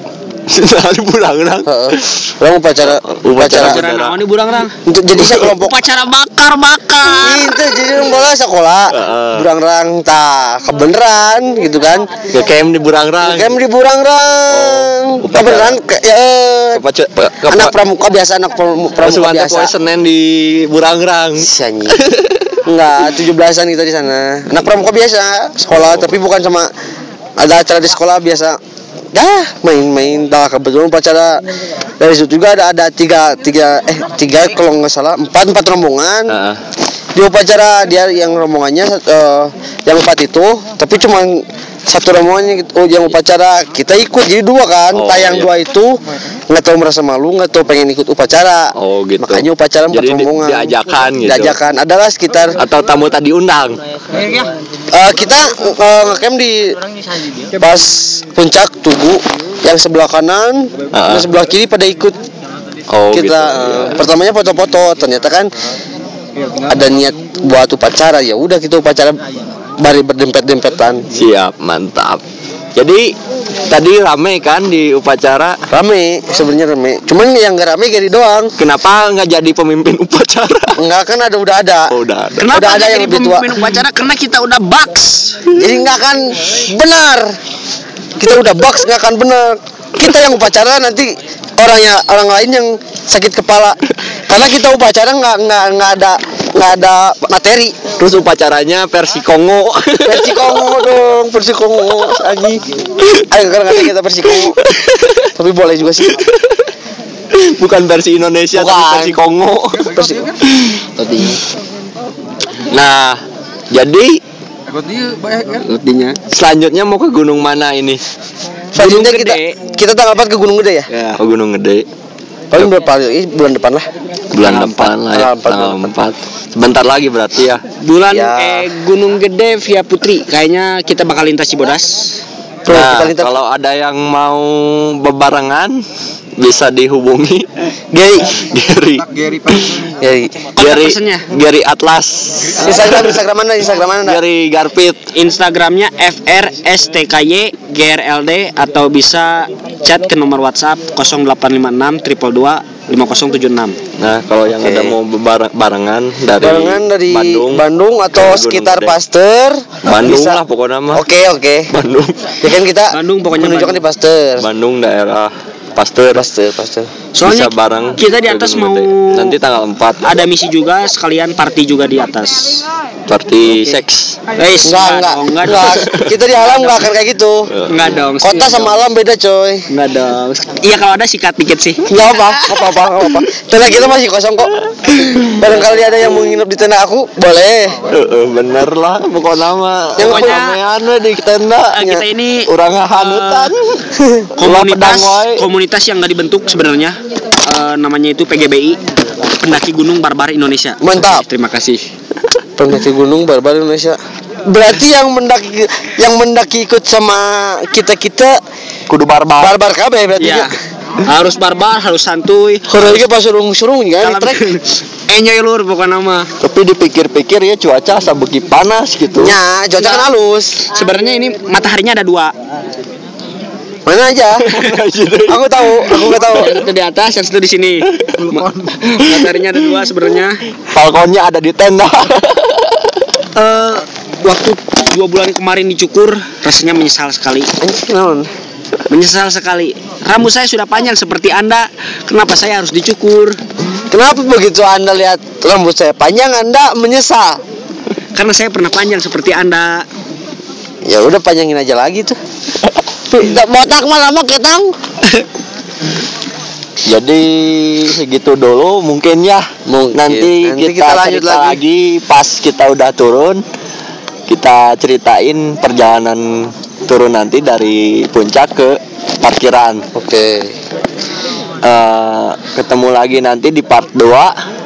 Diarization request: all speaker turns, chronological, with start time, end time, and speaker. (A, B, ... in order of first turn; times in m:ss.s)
0:00.5-0:02.2 A
0:01.6-0:03.8 B
0:02.8-0:04.2 A
0:03.5-0:04.7 C
0:04.8-0:05.8 B
0:05.2-0:05.5 A
0:05.4-0:07.5 C
0:07.2-0:12.1 B
0:08.9-0:09.5 A
0:12.3-0:13.5 A
0:13.2-0:16.8 B
0:14.5-0:15.8 A
0:16.7-0:17.7 A
0:17.4-0:19.7 B
0:19.0-0:22.6 A
0:21.4-0:22.0 B
0:22.6-0:26.7 B
0:25.7-0:26.2 A
0:27.4-0:28.6 B
0:29.1-0:31.4 B
0:32.0-0:36.3 B
0:36.3-0:36.6 A
0:37.1-0:45.9 B
0:44.9-0:45.5 A
0:46.5-0:52.6 B
0:48.7-0:51.6 A
0:52.5-0:53.8 A
0:54.9-0:56.8 B
0:57.6-1:02.2 B
1:00.9-1:01.3 A
1:02.9-1:04.0 A
1:03.1-1:05.5 B
1:06.6-1:09.2 B
1:09.8-1:11.0 B
1:11.1-1:12.2 A
1:12.8-1:13.0 A
1:13.7-1:15.6 A
1:15.7-1:18.5 B
1:18.6-1:20.8 A
1:20.8-1:21.9 B
1:21.9-1:22.6 A
1:22.4-1:25.5 C
1:22.5-1:23.5 B
1:25.5-1:27.3 B
1:28.2-1:37.8 B
1:38.0-1:40.8 A
1:40.0-1:42.6 B
1:43.1-1:44.6 B
1:44.3-1:45.3 A
1:45.3-1:46.2 B
1:46.0-1:46.7 A
1:47.3-1:50.0 A
1:48.5-1:49.2 B
1:49.9-1:50.3 B
1:50.5-1:50.8 A
1:51.0-1:51.4 C
1:52.6-1:53.2 A
1:53.7-1:54.2 A
1:55.0-1:56.2 C
1:56.3-1:58.0 A
1:58.7-1:59.6 C
1:58.7-2:00.9 B
2:00.9-2:01.2 C
2:01.2-2:01.8 A
2:02.5-2:03.8 B
2:04.3-2:07.6 A
2:04.4-2:05.0 C
2:05.1-2:05.8 B
2:07.8-2:12.1 C
2:08.1-2:08.7 B
2:12.6-2:13.4 B
2:12.7-2:15.8 A
2:16.4-2:17.5 A
2:17.9-2:18.3 B
2:18.3-2:19.9 A
2:20.0-2:20.4 B
2:20.6-2:21.3 C
2:20.6-2:23.2 A
2:22.6-2:24.2 B
2:24.0-2:25.1 A
2:25.1-2:33.8 C
2:34.0-2:38.9 A
2:34.6-2:35.0 B
2:36.4-2:40.4 B
2:39.8-2:41.0 A
2:40.9-2:41.7 B
2:41.7-2:42.3 A
2:42.4-2:44.4 B
2:42.9-2:43.8 C
2:44.4-2:46.2 A
2:46.1-2:46.9 B
2:47.1-2:49.4 C
2:47.2-2:50.1 A
2:50.0-2:52.6 C
2:53.1-2:54.2 A
2:53.4-2:53.8 C
2:54.3-2:56.8 C
2:54.6-2:57.5 B
2:55.6-2:56.1 A
2:57.5-2:58.0 A
2:57.7-2:58.8 C
2:58.2-2:59.6 B
2:59.7-3:02.7 C
3:01.9-3:07.8 B
3:05.4-3:06.2 C
3:07.8-3:11.8 A
3:10.0-3:10.4 B
3:10.0-3:10.6 C
3:11.7-3:13.5 C
3:11.8-3:12.0 B
3:12.4-3:13.8 A
3:14.0-3:14.3 B
3:14.4-3:21.8 C
3:14.4-3:15.4 A
3:20.8-3:21.2 B
3:22.6-3:28.3 B
3:28.9-3:29.5 A
3:29.4-3:30.5 B
3:30.2-3:33.1 C
3:32.7-3:34.4 B
3:34.0-3:36.3 C
3:36.4-3:39.4 A
3:39.1-3:40.6 B
3:39.8-3:40.1 C
3:40.7-3:42.3 C
3:43.8-3:44.4 B
3:44.4-3:46.5 A
3:45.3-3:46.6 B
3:46.2-3:50.4 C
3:47.9-3:49.3 A
3:50.7-3:53.0 A
3:53.3-3:57.5 C
3:57.6-3:58.3 B
3:58.9-4:03.4 C
4:03.9-4:07.4 B
4:08.1-4:09.8 C
4:10.8-4:12.2 B
4:13.1-4:14.7 B
4:16.8-4:23.4 A
4:19.6-4:21.6 B
4:24.3-4:29.8 A
4:29.9-4:30.5 B
4:31.6-4:34.3 A